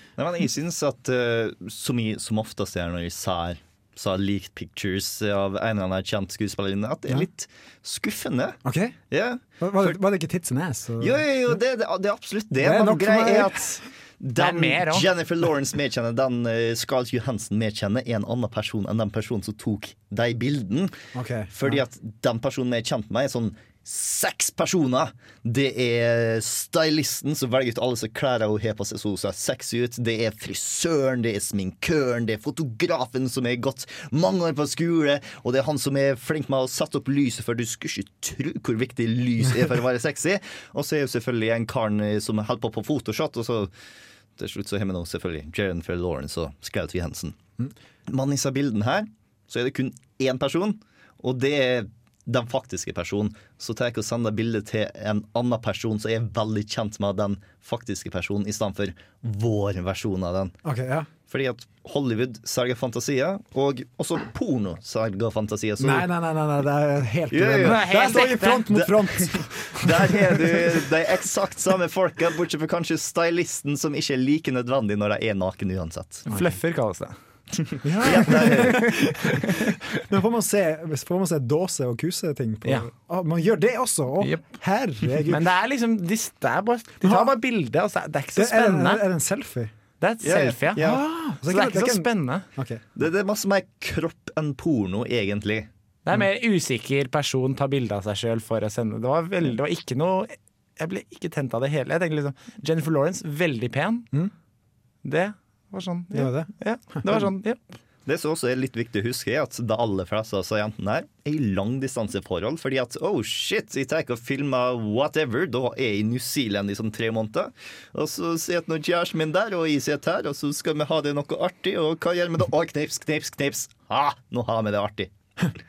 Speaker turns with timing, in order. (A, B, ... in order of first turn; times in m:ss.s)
0:00.2-0:08.6 A
0:08.6-0:09.0 B
0:09.1-0:10.0 A
0:09.6-0:11.2 B
0:11.0-0:21.0 A
0:12.6-0:13.8 B
0:14.4-0:15.1 C
0:21.1-0:21.8 B
0:21.6-0:43.7 A
0:44.4-0:47.4 A
0:48.1-1:00.6 A
1:00.6-1:01.1 B
1:01.3-1:06.1 A
1:05.8-1:10.9 B
1:07.3-1:07.9 A
1:07.6-1:08.7 C
1:08.7-1:16.3 A
1:16.3-1:17.1 C
1:17.8-1:25.5 B
1:18.0-1:19.0 A
1:18.3-1:19.7 C
1:24.2-1:24.5 C
1:25.1-1:29.0 C
1:27.0-1:27.3 B
1:28.4-1:29.7 B
1:30.0-1:32.5 C
1:30.2-1:31.0 A
1:30.8-1:32.8 B
1:33.0-1:35.7 A
1:36.0-1:44.1 C
1:45.0-1:47.6 C
1:46.1-1:47.3 B
1:48.1-2:05.1 A